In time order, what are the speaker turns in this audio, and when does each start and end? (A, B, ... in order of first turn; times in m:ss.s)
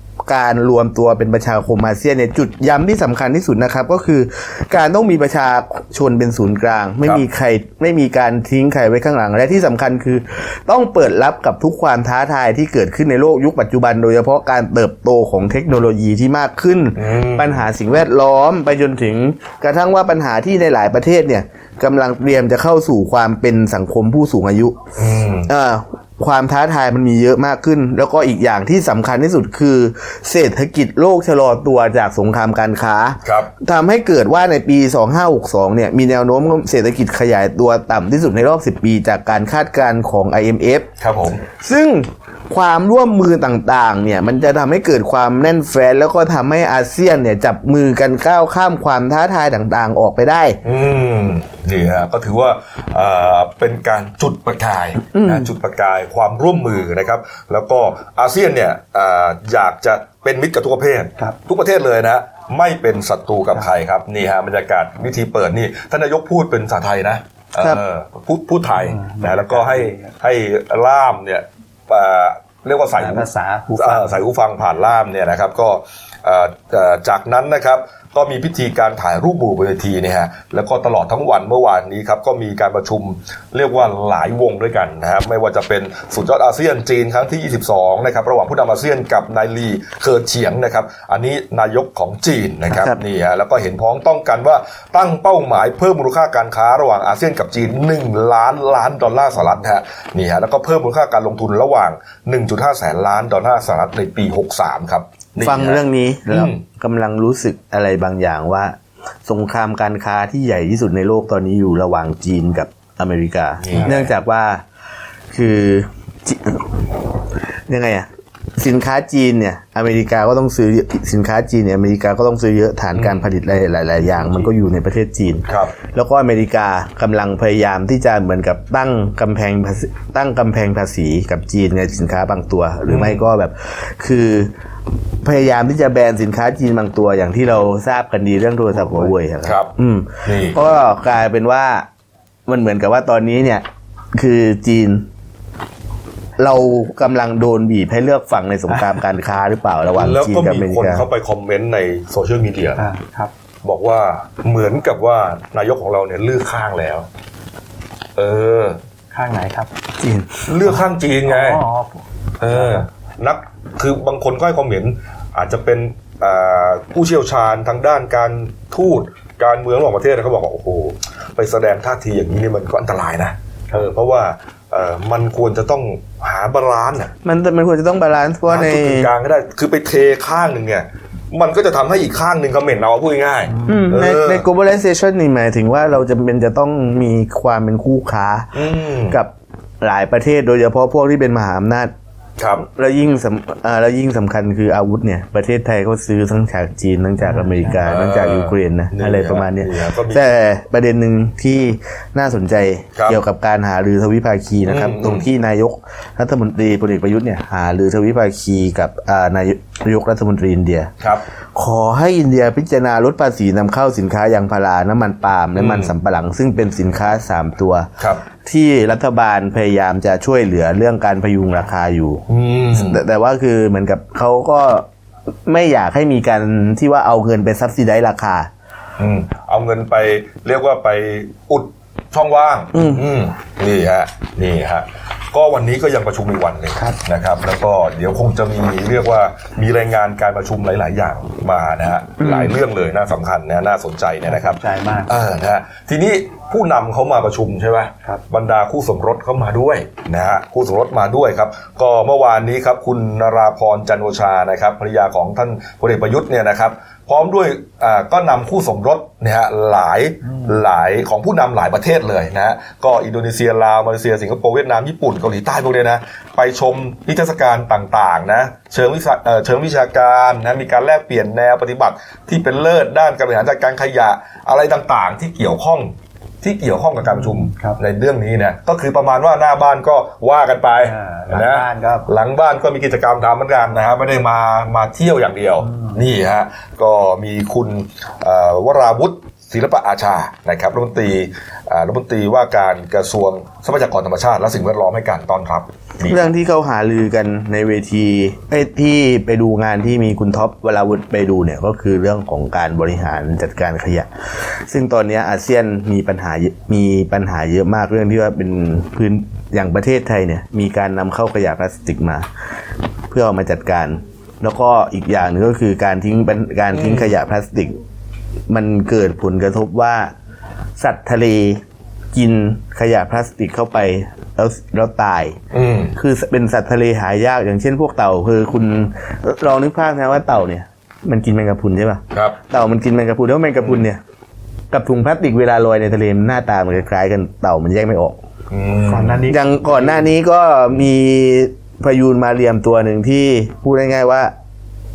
0:00.3-0:24.8 A
0:17.0-0:17.6 B
0:25.0-0:25.5 B
0:25.5-0:40.9 A
0:33.2-0:33.5 B
0:41.0-0:41.4 B
0:41.5-0:50.6 A
0:50.6-1:46.6 B
0:55.1-0:55.5 A
1:08.8-1:10.1 C
1:13.0-1:14.2 C
1:32.7-1:33.0 A
1:45.4-1:54.6 A
1:53.6-1:54.1 B
1:55.3-1:56.8 A
1:57.7-2:14.5 A
2:02.9-2:03.2 B
2:05.5-2:05.7 B
2:12.9-2:13.2 B
2:15.2-2:21.9 A
2:18.8-2:19.1 C
2:19.4-2:19.7 B
2:20.2-2:20.6 B
2:22.5-2:25.0 A
2:26.4-2:31.0 A
2:30.0-2:32.8 B
2:32.8-2:33.3 C
2:33.6-2:37.1 B
2:38.2-2:38.8 B
2:39.1-2:39.7 C
2:40.0-2:40.4 A
2:40.4-2:41.6 B
2:41.3-2:42.0 C
2:42.4-2:57.1 B
2:42.5-2:42.8 C
2:57.2-2:59.1 A
2:58.5-3:04.4 B
3:03.5-3:03.8 C
3:03.6-3:08.5 A
3:08.5-3:09.2 B
3:09.1-3:11.9 A
3:12.4-3:12.6 B
3:12.6-3:30.9 A
3:17.2-3:17.8 C
3:17.8-3:20.3 B
3:24.6-3:25.2 B
3:31.5-3:37.9 A
3:35.5-3:35.9 B
3:38.0-3:38.2 B
3:38.4-3:42.2 A
3:42.3-3:43.0 B
3:42.7-3:44.9 A
3:45.4-3:48.5 A
3:49.0-4:56.2 B
3:52.7-3:53.0 A
4:02.2-4:02.5 A
4:04.2-4:05.1 C
4:37.1-4:37.8 C
4:40.8-4:42.1 C
4:45.6-4:46.0 C
4:56.1-5:04.1 A
5:04.7-5:12.2 A
5:13.1-5:17.8 A
5:16.7-5:17.1 B
5:18.5-5:20.1 A
5:20.8-5:21.6 A
5:22.1-5:25.4 A
5:25.5-5:26.0 B
5:25.9-5:34.0 A
5:34.7-5:38.2 A
5:38.5-5:39.2 B
5:38.8-5:40.0 C
5:39.3-5:44.3 A